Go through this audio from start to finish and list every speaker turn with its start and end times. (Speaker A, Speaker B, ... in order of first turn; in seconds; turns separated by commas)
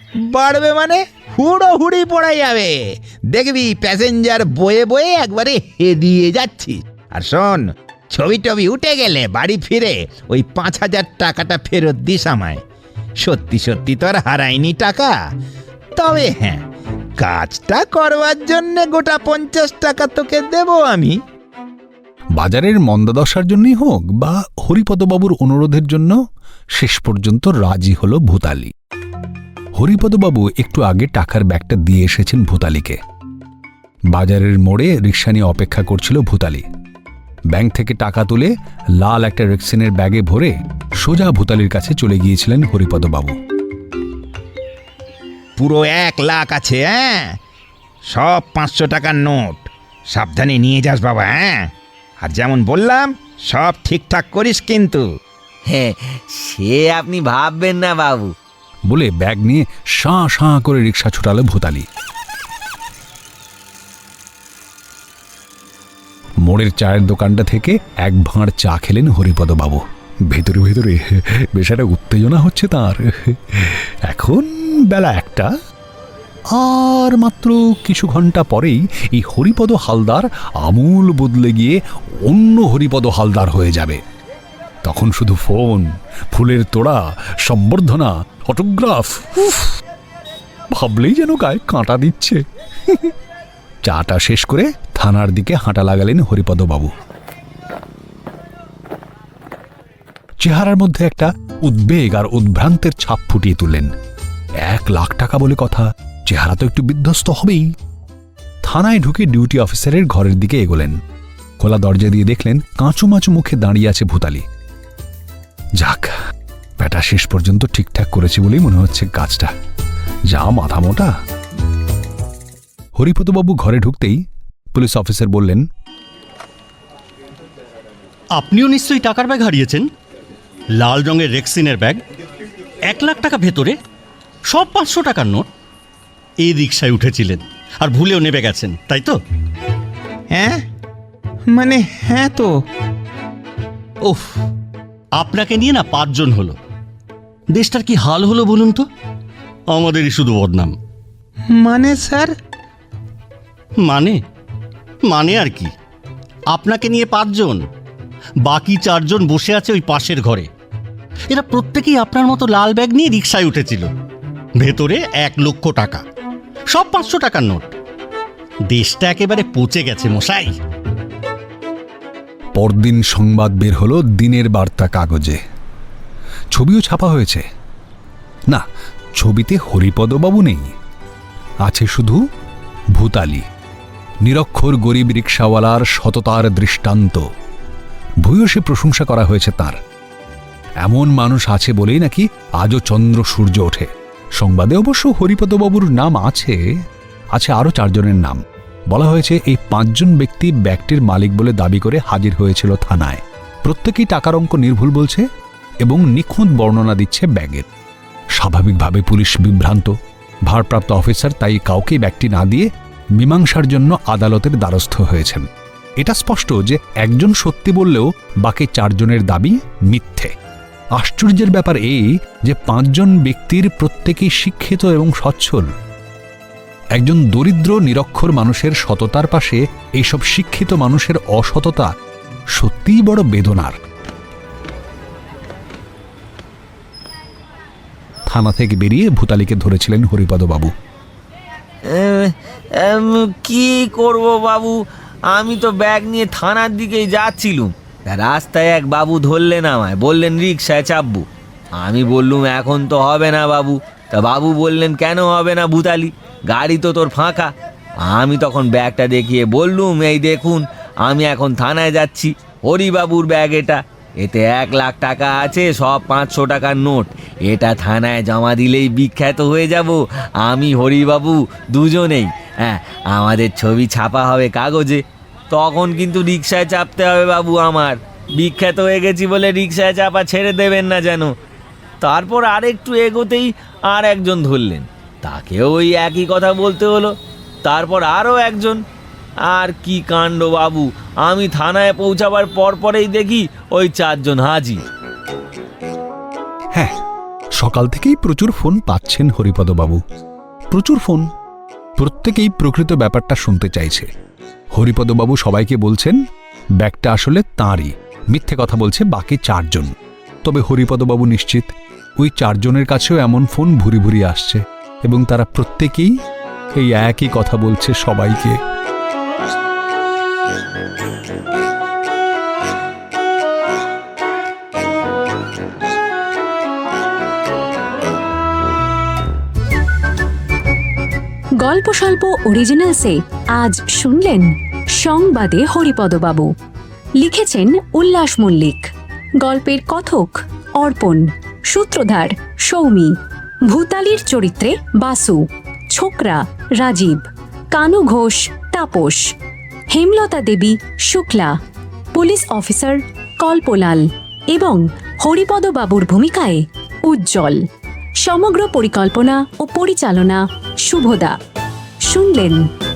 Speaker A: 0.3-12.6, Speaker A: 13.2-15.1, Speaker A: 15.9-16.6, Speaker A: 17.2-21.2, Speaker B: 22.4-26.2, Speaker B: 26.8-28.7, Speaker B: 29.8-33.0, Speaker B: 34.1-36.7, Speaker B: 37.5-43.4, Speaker A: 45.6-47.4, Speaker A: 48.1-51.7, Speaker A: 52.2-55.0, Speaker C: 55.7-58.3, Speaker B: 58.9-61.9, Speaker B: 66.4-75.5, Speaker B: 76.5-84.0, Speaker B: 84.8-89.8, Speaker B: 90.7-93.1, Speaker B: 93.8-96.9, Speaker B: 100.4-103.9, Speaker B: 104.6-107.7, Speaker B: 108.6-111.0, Speaker B: 111.6-114.5, Speaker B: 115.8-116.2, Speaker B: 116.8-119.5, Speaker B: 120.3-121.1, Speaker B: 123.0-124.2, Speaker B: 124.7-125.7, Speaker D: 128.3-129.9, Speaker D: 130.8-132.0, Speaker D: 132.9-133.8, Speaker D: 134.5-135.5, Speaker D: 136.4-139.2, Speaker A: 140.3-140.6, Speaker A: 141.5-142.6, Speaker D: 144.0-144.3, Speaker D: 145.2-146.6, Speaker D: 147.5-148.9, Speaker D: 149.7-150.8, Speaker A: 151.5-152.3, Speaker D: 153.8-154.2, Speaker D: 155.1-155.7, Speaker D: 156.5-157.6, Speaker D: 158.4-160.5, Speaker D: 161.3-163.9, Speaker D: 164.6-166.0, Speaker D: 166.7-167.7, Speaker D: 168.7-170.5, Speaker B: 172.6-175.4, Speaker B: 176.5-177.4, Speaker B: 178.5-180.7, Speaker B: 181.7-182.2, Speaker B: 182.9-183.5, Speaker B: 184.2-187.3, Speaker B: 188.2-189.8, Speaker B: 190.8-196.6, Speaker B: 197.3-205.3, Speaker B: 205.8-207.7, Speaker B: 208.4-209.9, Speaker B: 210.5-215.5, Speaker B: 216.0-220.3, Speaker B: 220.9-225.7, Speaker B: 226.9-231.9, Speaker B: 232.5-233.8, Speaker B: 238.3-240.7, Speaker C: 241.9-244.8, Speaker C: 245.3-251.2, Speaker C: 251.8-257.5, Speaker C: 258.1-281.3, Speaker C: 282.0-287.1, Speaker C: 287.6-288.8, Speaker C: 289.5-294.8, Speaker B: 297.6-300.0, Speaker B: 300.7-301.3, Speaker B: 302.0-304.1, Speaker B: 304.7-306.2, Speaker B: 306.8-316.1, Speaker B: 316.8-318.6, Speaker E: 331.6-336.5, Speaker E: 337.2-338.9, Speaker E: 339.4-343.1, Speaker E: 343.7-349.2, Speaker E: 349.9-351.5, Speaker E: 352.1-357.6, Speaker E: 358.2-361.4, Speaker E: 362.1-362.6